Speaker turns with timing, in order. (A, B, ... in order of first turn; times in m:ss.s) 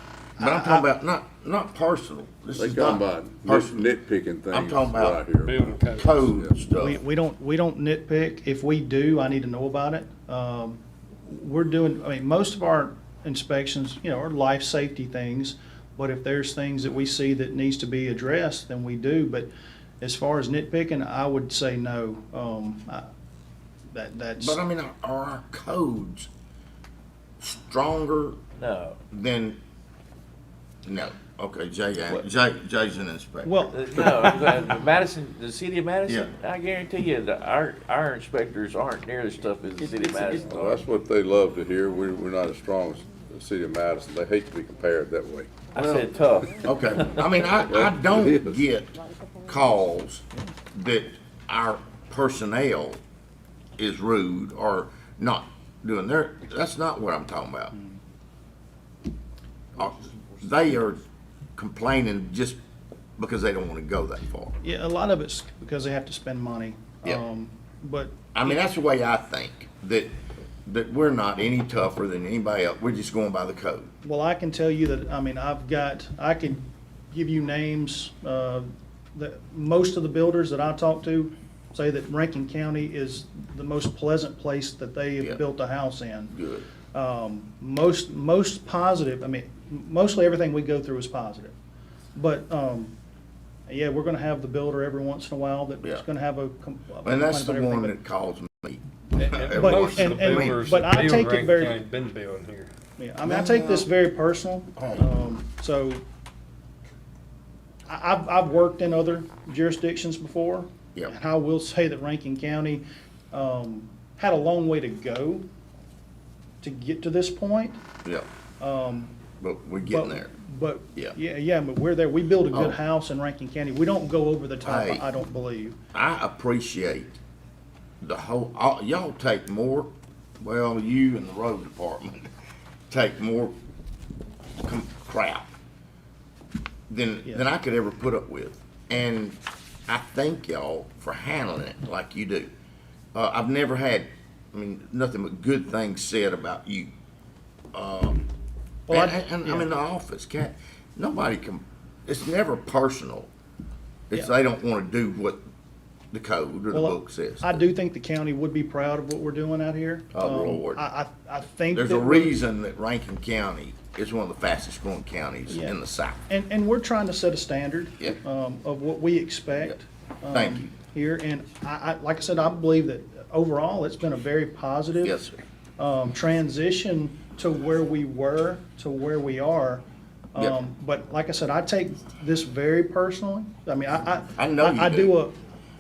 0:00.4-0:00.8 A
0:00.4-0:03.8 B
0:02.6-0:06.5 C
0:04.5-0:05.2 B
0:05.4-0:06.3 D
0:05.8-0:07.0 B
0:06.8-0:19.5 A
0:20.0-0:23.1 A
0:23.9-0:24.6 A
0:24.4-0:26.3 B
0:27.4-0:28.4 B
0:28.6-0:29.0 E
0:29.1-0:29.6 B
0:30.9-0:33.6 B
0:33.4-0:34.0 A
0:33.7-0:40.8 E
0:40.4-0:45.6 C
0:45.7-0:47.3 E
0:45.7-0:53.0 B
0:47.7-0:48.6 C
0:53.8-0:57.7 B
0:59.8-1:01.0 B
1:01.6-1:02.6 B
1:03.2-1:04.6 B
1:04.6-1:08.6 A
1:08.3-1:10.1 B
1:10.7-1:13.9 B
1:14.0-1:26.4 A
1:26.3-1:26.7 B
1:26.9-1:31.6 A
1:32.2-1:33.0 A
1:33.7-1:38.0 A
1:37.0-1:40.7 B
1:39.2-1:42.7 D
1:39.5-1:41.8 A
1:43.0-1:46.0 A
1:43.2-1:43.9 B
1:44.8-1:45.1 B
1:47.9-1:55.5 A
1:56.6-1:57.8 A
1:58.6-1:59.2 A
1:59.4-2:00.3 B
1:59.8-2:05.8 A
2:02.5-2:02.8 B
2:04.6-2:05.1 B
2:05.9-2:07.2 B
2:08.0-2:12.3 B
2:12.9-2:13.5 B
2:14.6-2:15.5 B
2:16.9-2:22.5 B
2:23.1-2:26.9 B
2:27.7-2:28.2 B
2:28.9-2:29.7 A
2:28.9-2:33.3 B
2:34.1-2:35.4 B
2:36.1-2:37.6 B
2:36.7-2:42.4 A
2:40.1-2:40.8 B
2:41.7-2:46.2 B
2:45.5-2:55.2 A
2:50.3-2:50.7 B
2:55.0-2:55.4 B
2:55.8-3:05.4 A
3:04.4-3:05.1 B